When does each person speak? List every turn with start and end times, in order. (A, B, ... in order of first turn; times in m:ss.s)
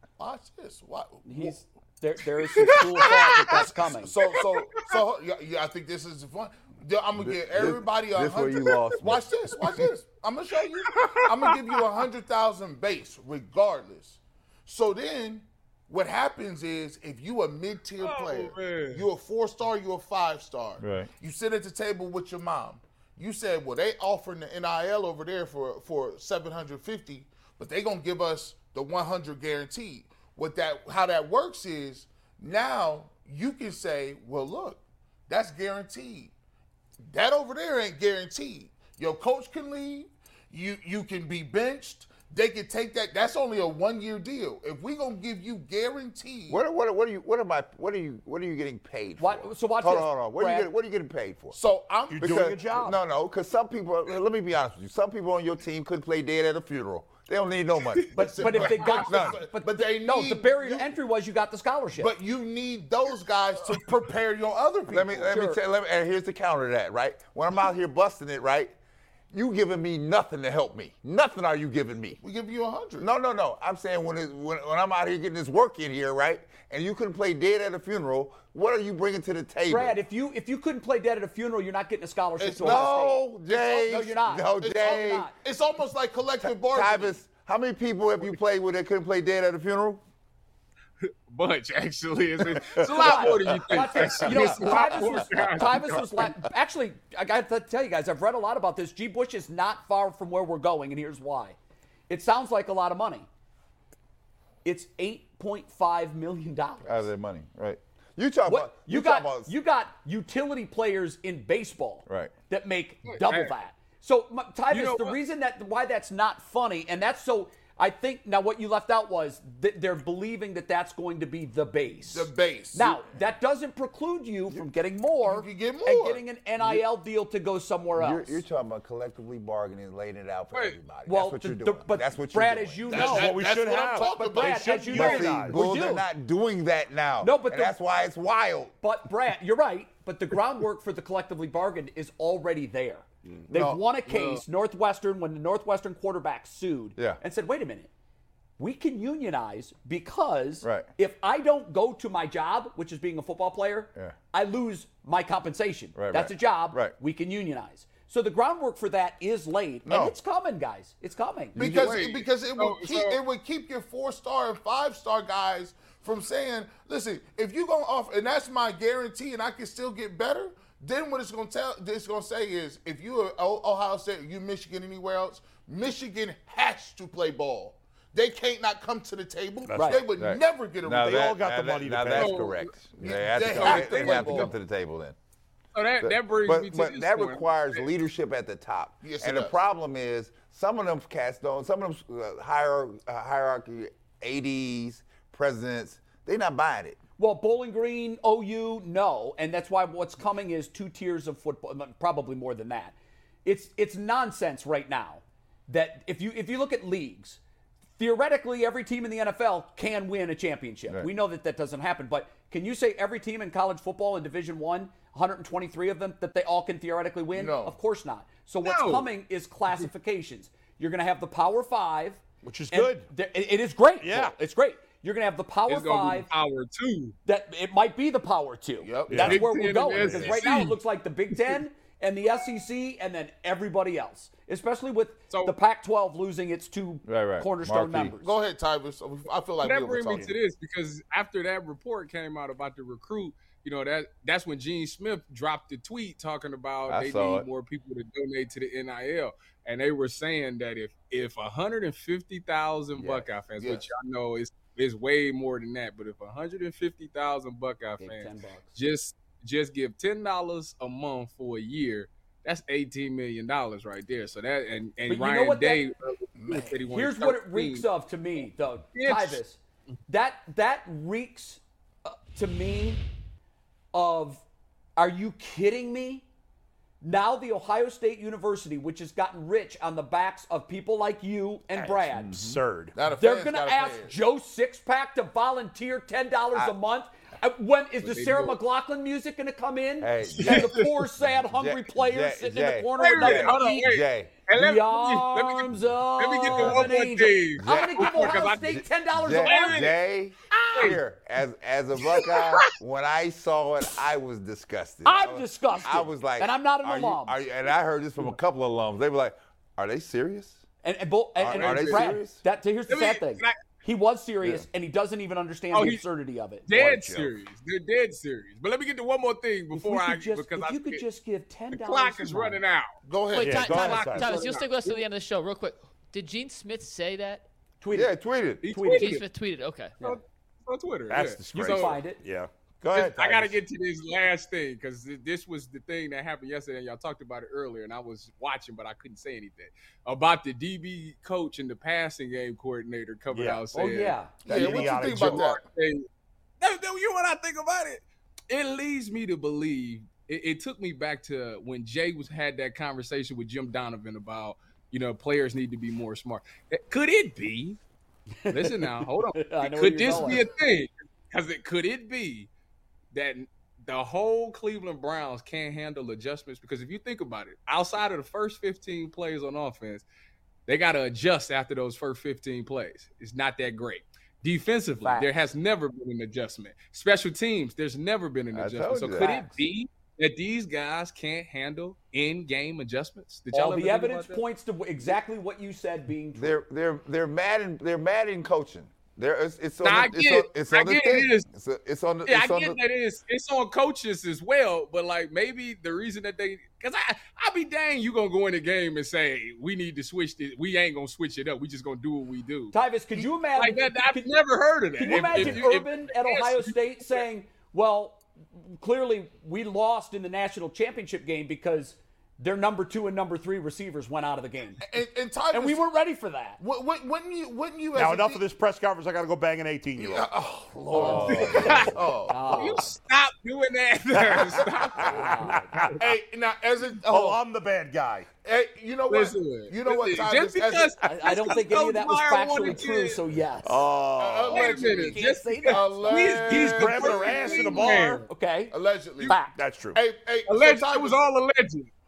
0:00.2-0:01.6 A
0:01.2-0:04.1 B
0:02.5-0:05.0 C
0:03.0-0:36.3 A
0:07.2-0:09.3 D
0:10.8-0:11.8 C
0:18.0-0:19.1 C
0:20.8-0:21.1 D
0:37.1-0:46.6 A
0:46.5-0:51.6 D
0:49.2-0:50.7 B
0:51.5-0:52.6 A
0:52.1-0:53.0 E
0:52.2-0:59.4 D
0:58.1-1:02.1 B
0:58.2-1:00.9 A
1:01.9-1:05.5 A
1:04.9-1:08.7 D
1:05.3-1:05.6 B
1:09.3-1:12.2 D
1:12.2-1:13.1 A
1:13.0-1:20.0 D
1:19.7-1:23.2 B
1:22.4-1:27.2 A
1:22.6-1:25.3 D
1:23.8-1:25.3 B
1:26.4-1:30.0 D
1:31.0-1:36.2 C
1:32.5-1:35.6 D
1:32.8-1:41.6 B
1:42.1-1:43.3 B
1:44.6-1:47.1 B
1:46.8-1:49.5 D
1:48.4-2:08.4 B
1:52.1-1:52.3 D
1:53.1-1:53.5 C
1:54.7-1:55.2 C
2:02.0-2:03.1 A
2:05.2-2:06.2 A
2:07.9-2:12.9 D
2:10.5-2:10.8 C
2:11.0-2:13.4 B
2:12.9-2:15.2 A
2:12.9-2:15.6 E
2:13.9-2:16.1 B
2:15.0-2:18.7 D
2:17.2-2:17.7 B
2:18.8-2:27.9 B
2:23.5-2:23.8 A
2:24.0-2:24.4 C
2:28.6-2:41.6 B
2:30.6-2:30.9 D
2:35.9-2:36.9 D
2:39.8-2:40.2 D
2:41.5-3:01.4 A
2:41.6-2:43.2 C
2:59.6-3:00.0 E
2:59.7-3:00.0 B
3:00.2-3:05.2 D
3:01.0-3:02.5 E
3:02.1-3:04.5 C
3:03.0-3:04.5 A
3:03.6-3:04.5 B
3:05.7-3:07.8 C
3:06.0-3:17.0 D
3:09.0-3:09.6 A
3:17.2-3:27.4 B
3:28.0-3:46.3 B
3:37.3-3:37.8 A
3:38.6-3:39.1 C
3:42.4-3:43.1 E
3:44.0-3:44.3 E
3:45.7-3:47.2 C
3:47.2-3:58.2 B
3:48.8-3:49.4 A
3:49.1-3:49.4 E
3:49.3-3:50.8 C
3:50.0-3:50.4 D
3:51.3-3:51.6 C
3:57.0-3:58.2 D
3:58.2-4:00.3 A
3:59.6-4:27.9 C
4:06.9-4:07.4 D
4:13.0-4:13.3 D
4:13.6-4:13.8 A
4:18.0-4:18.7 B
4:25.1-4:25.8 B
4:26.4-4:26.8 A
4:26.9-4:33.0 B
4:28.9-4:29.4 C
4:33.9-4:34.4 B
4:35.0-4:36.2 B
4:37.0-4:42.6 B
4:41.7-4:42.9 E
4:42.9-4:44.1 A
4:43.2-4:53.9 B
4:48.0-4:48.6 C
4:50.0-4:54.4 D
4:50.3-4:51.0 C
4:53.0-4:59.9 C
4:54.5-4:59.9 B
4:56.5-4:56.9 D
4:57.6-5:10.6 D
5:00.5-5:01.0 B
5:02.0-5:02.7 C
5:05.0-5:07.4 B
5:10.8-5:16.8 B
5:11.4-5:12.4 D
5:11.5-5:12.1 C
5:12.9-5:13.6 C
5:15.7-5:16.0 C
5:16.7-5:21.0 C
5:16.8-5:17.2 E
5:19.7-5:22.6 B
5:21.7-5:22.9 C
5:23.0-5:24.0 A
5:23.3-5:27.4 F
5:23.4-5:24.4 E
5:23.7-5:24.2 D
5:23.8-5:25.0 C
5:27.8-5:28.1 B
5:27.9-5:28.7 D
5:28.6-5:29.2 C
5:28.6-5:29.2 B
5:28.9-5:30.0 F
5:30.0-5:32.0 C
5:31.1-5:33.6 E
5:31.6-5:32.2 B
5:32.9-5:46.0 C
5:43.3-5:43.7 E
5:43.7-5:44.3 B
5:44.4-5:45.5 E
5:44.4-5:45.6 A
5:46.6-5:57.8 C
5:58.4-6:00.5 B
5:58.5-6:02.5 C
6:03.1-6:10.0 C
6:10.7-6:24.4 C
6:15.0-6:15.3 B
6:18.5-6:19.6 D
6:19.2-6:19.6 B
6:23.5-6:26.6 B
6:26.3-6:32.8 D
6:29.8-6:31.4 C
6:32.2-6:47.2 C
6:42.7-6:44.3 B
6:44.9-6:54.8 B
6:45.1-6:45.6 E
6:54.8-6:55.8 A
6:55.5-6:56.6 B
6:56.6-6:58.4 A
6:57.9-7:00.3 E
7:00.0-7:02.8 A
7:00.9-7:02.8 B
7:01.0-7:01.9 D
7:01.3-7:01.9 C
7:02.5-7:05.0 C
7:05.0-7:05.9 B
7:05.0-7:06.0 E
7:06.0-7:07.4 A
7:07.0-7:08.3 E
7:08.4-7:10.9 A
7:09.1-7:13.2 C
7:11.0-7:13.8 B
7:13.6-7:14.6 E
7:14.2-7:18.0 A
7:14.5-7:18.2 C
7:14.5-7:16.0 B
7:16.4-7:18.2 E
7:18.3-7:19.6 B
7:18.7-7:21.2 A
7:19.3-7:20.0 E
7:20.5-7:21.9 C